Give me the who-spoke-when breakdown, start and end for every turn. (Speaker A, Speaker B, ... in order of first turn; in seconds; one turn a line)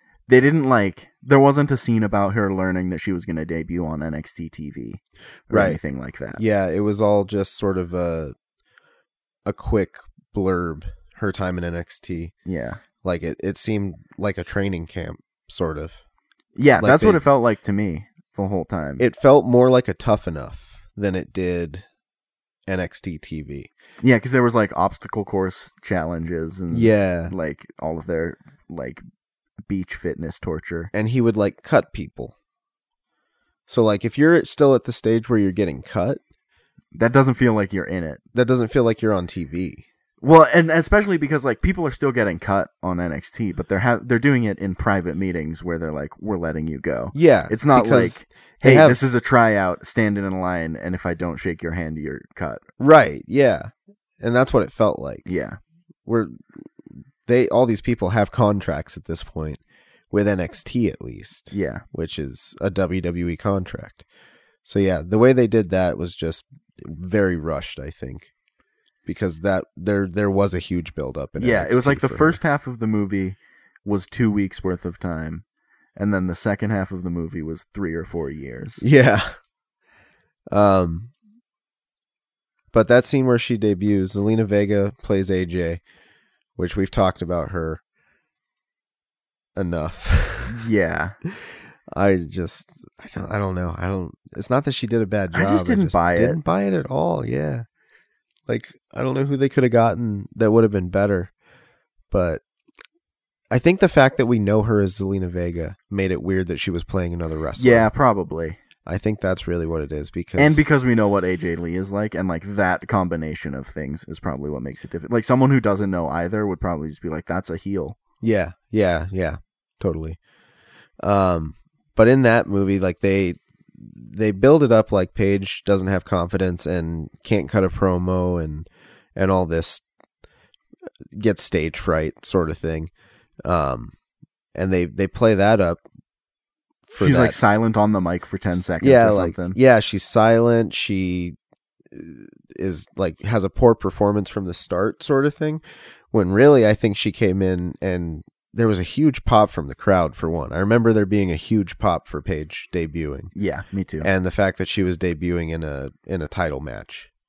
Speaker A: 0.3-6.4
Speaker B: 5.5-5.8
Speaker B: 6.3-8.3
Speaker B: 9.4-12.3
Speaker A: 12.4-12.8
Speaker B: 13.0-16.0
Speaker A: 16.6-19.0
Speaker B: 16.8-17.2
Speaker B: 19.0-21.9
Speaker B: 22.7-23.7
Speaker A: 24.0-29.0
Speaker B: 26.7-27.3
Speaker A: 29.7-30.9
Speaker B: 30.9-32.3
Speaker B: 33.7-36.2
Speaker A: 36.9-38.2
Speaker B: 38.3-39.8
Speaker A: 40.2-52.6
Speaker B: 47.1-49.0
Speaker B: 52.8-55.3
Speaker A: 55.2-55.6
Speaker B: 56.0-56.4
Speaker B: 57.2-64.0
Speaker A: 61.5-61.8
Speaker B: 64.6-68.3
Speaker B: 69.0-72.4
Speaker A: 71.4-75.4
Speaker A: 76.0-78.8
Speaker B: 78.8-79.3
Speaker B: 80.5-81.1
Speaker B: 82.7-85.8
Speaker B: 86.5-87.8
Speaker B: 89.5-90.6
Speaker A: 90.5-91.2
Speaker B: 91.4-97.7
Speaker A: 95.3-96.4
Speaker B: 98.5-101.3
Speaker B: 102.1-102.4
Speaker B: 103.5-107.9
Speaker A: 107.6-108.6
Speaker B: 108.8-110.7
Speaker A: 110.4-118.0
Speaker B: 118.2-120.2
Speaker B: 121.0-129.8
Speaker B: 131.1-132.9
Speaker B: 133.4-133.9
Speaker B: 134.5-135.8
Speaker B: 136.9-137.4
Speaker A: 137.0-139.6
Speaker B: 138.8-141.3
Speaker B: 141.9-153.3
Speaker A: 153.3-154.1
Speaker B: 154.0-157.1